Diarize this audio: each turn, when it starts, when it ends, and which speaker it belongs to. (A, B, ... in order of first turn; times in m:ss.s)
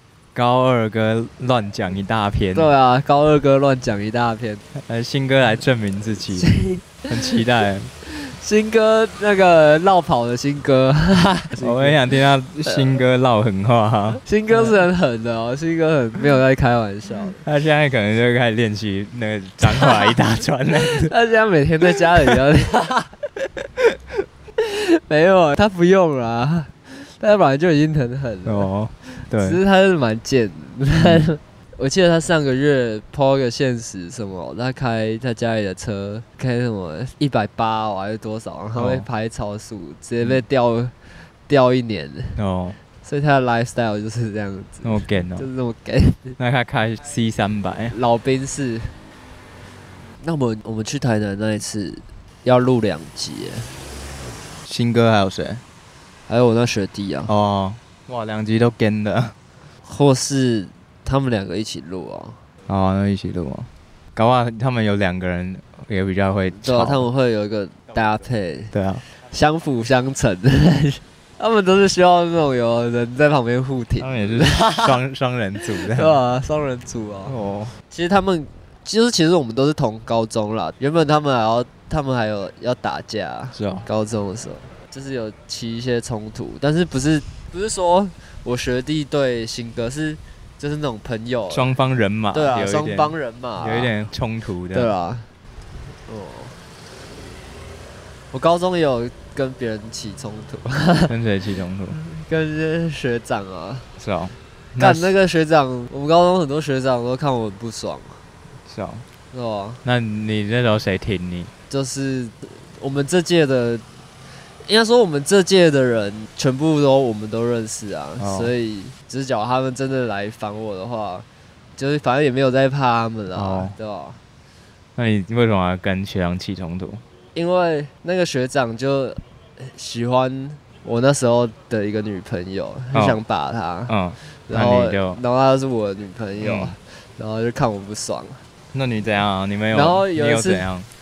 0:00.3-0:02.7 A
0:02.5-0:04.6 B
0:04.8-0:06.5 A
0:06.3-0:07.4 B
0:07.1-0:07.9 A
0:08.0-0:13.0 B
0:11.5-0:14.8 A
0:14.2-0:17.4 B
0:17.4-0:21.1 A
0:19.7-0:20.1 B
0:20.7-0:23.1 B
0:24.6-0:42.4 B
0:28.4-0:29.6 A
0:31.0-0:31.2 A
0:38.8-0:39.0 A
0:42.4-0:42.8 A
0:43.0-0:46.4 B
0:44.8-0:45.5 A
0:46.4-0:48.0 A
0:47.9-0:49.0 B
0:50.2-0:53.7 B
0:54.6-0:55.6 A
0:56.3-0:57.3 B
0:57.3-0:59.3 A
0:59.8-1:02.4 B
1:02.7-1:07.0 A
1:06.6-1:15.0 B
1:08.7-1:09.0 A
1:14.0-1:16.2 A
1:15.8-1:17.3 B
1:17.3-1:17.7 A
1:17.9-1:31.7 B
1:23.5-1:23.9 A
1:31.5-1:34.9 A
1:32.3-1:33.9 B
1:34.7-1:35.3 B
1:36.0-1:36.6 B
1:38.3-1:41.1 B
1:41.1-1:42.0 A
1:41.9-1:43.9 B
1:44.0-1:45.1 A
1:44.8-1:48.2 B
1:48.7-1:49.0 A
1:49.3-1:49.8 B
1:49.8-1:51.5 A
1:51.7-1:53.8 B
1:54.6-2:04.2 B
1:58.2-1:58.5 A
2:03.3-2:03.7 A
2:05.0-2:07.0 A
2:07.3-2:18.4 B
2:12.9-2:13.2 A
2:13.9-2:15.2 A
2:16.4-2:16.8 A
2:18.7-2:20.9 A
2:19.7-2:20.7 B